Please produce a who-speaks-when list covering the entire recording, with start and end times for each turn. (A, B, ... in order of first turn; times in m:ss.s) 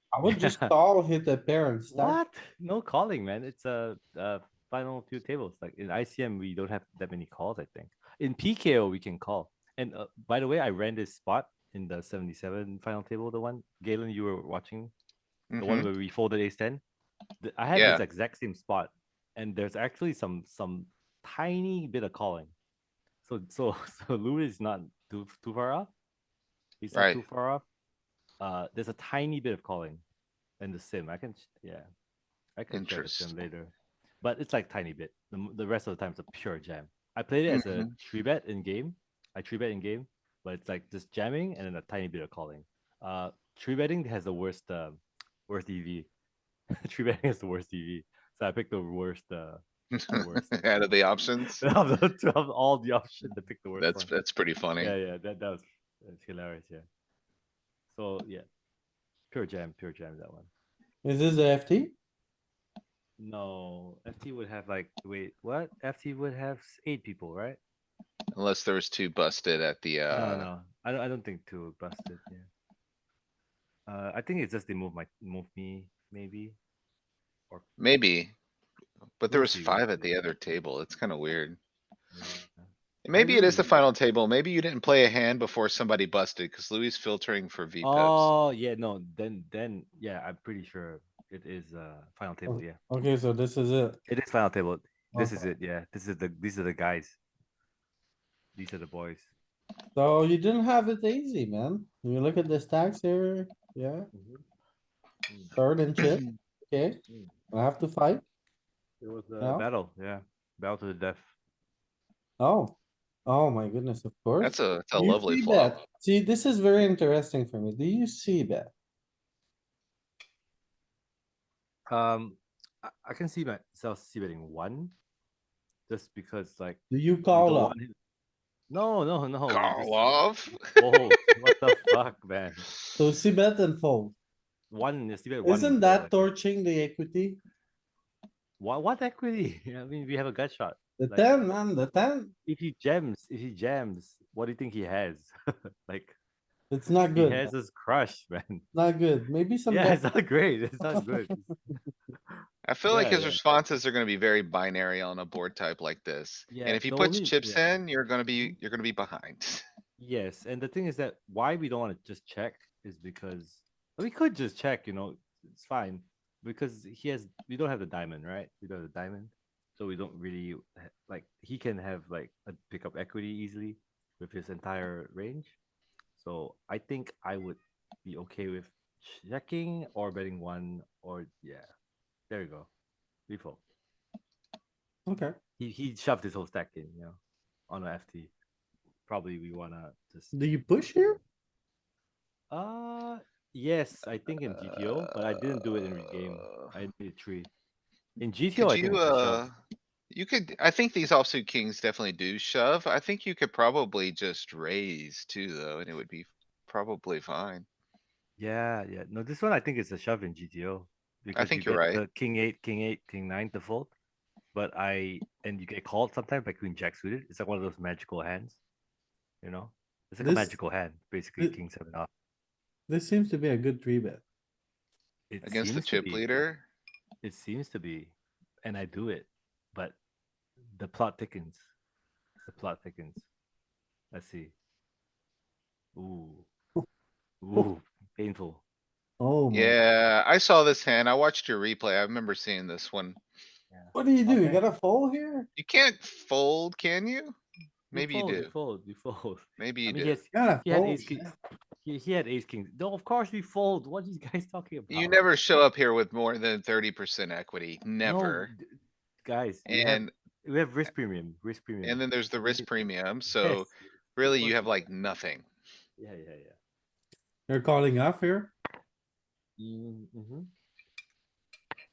0:00.1-0:02.2 A
0:00.2-0:00.7 B
0:01.9-0:14.9 B
0:15.5-0:15.9 C
0:15.6-0:16.8 B
0:17.4-0:22.5 B
0:17.7-0:18.0 C
0:23.2-0:25.9 B
0:26.8-0:27.6 B
0:26.9-0:27.2 C
0:28.4-0:30.0 B
0:30.6-0:31.9 B
0:32.6-0:46.1 B
0:32.7-0:33.3 C
0:37.5-0:37.9 C
0:46.8-0:50.9 B
0:49.9-0:51.6 C
0:51.6-0:54.1 B
0:53.8-0:54.9 C
0:54.8-0:56.8 B
0:57.9-0:58.4 B
0:59.3-1:00.5 B
1:01.0-1:01.9 A
1:03.2-1:07.6 B
1:08.3-1:10.5 C
1:10.1-1:12.5 B
1:13.9-1:16.6 B
1:17.8-1:18.3 C
1:19.2-1:21.6 C
1:19.3-1:20.1 B
1:22.1-1:22.7 B
1:23.0-1:28.3 C
1:23.1-1:23.7 A
1:23.4-1:23.6 B
1:27.8-1:32.8 B
1:32.5-1:34.0 A
1:34.1-1:37.2 B
1:35.1-1:35.4 A
1:38.5-1:39.3 B
1:39.9-1:44.1 A
1:44.1-1:44.4 B
1:45.3-1:45.5 B
1:45.5-1:47.0 A
1:47.5-1:48.2 A
1:49.0-1:51.3 B
1:49.4-1:49.6 A
1:52.4-1:58.7 A
1:54.4-1:55.8 C
2:01.9-2:04.9 B
2:05.9-2:07.9 B
2:06.9-2:07.8 A
2:08.7-2:12.7 B
2:09.5-2:11.3 C
2:13.0-2:14.1 A
2:14.7-2:16.2 B
2:15.4-2:17.4 A
2:18.6-2:21.4 B
2:21.0-2:22.3 A
2:22.4-2:25.3 B
2:25.8-2:26.2 B
2:26.7-2:27.5 A
2:27.1-2:28.6 B
2:28.7-2:30.0 A
2:29.7-2:33.4 B
2:32.6-2:39.6 C
2:36.5-2:37.7 B
2:40.0-2:55.6 B
2:56.2-3:01.7 B
3:02.3-3:02.7 B
3:03.3-3:03.6 B
3:05.1-3:05.4 A
3:05.6-3:07.2 B
3:07.7-3:08.3 B
3:09.1-3:10.3 B
3:10.3-3:11.2 A
3:12.5-3:17.5 B
3:14.8-3:15.1 C
3:16.2-3:16.7 C
3:18.2-3:19.4 B
3:18.6-3:19.6 C
3:20.1-3:27.6 C
3:28.4-3:33.9 B
3:31.3-3:32.0 C
3:34.5-3:38.6 B
3:39.4-3:42.1 B
3:40.2-3:40.6 A
3:42.9-3:44.2 A
3:45.3-3:46.4 B
3:45.4-3:46.6 C
3:47.2-3:50.0 B
3:50.7-3:51.6 B
3:52.4-3:53.2 B
3:54.1-3:54.5 B
3:55.9-3:56.5 B
3:57.4-3:58.6 B
3:59.2-3:59.8 A
3:59.5-4:03.2 C
4:03.7-4:04.6 B
4:03.9-4:05.5 A
4:05.6-4:07.4 C
4:07.9-4:08.5 C
4:07.9-4:15.2 B
4:09.6-4:10.2 C
4:10.3-4:11.3 A
4:14.9-4:18.5 C
4:18.0-4:24.9 B
4:19.6-4:20.1 C
4:21.8-4:25.4 C
4:26.0-4:26.6 B
4:27.5-4:28.5 A
4:29.6-4:30.5 B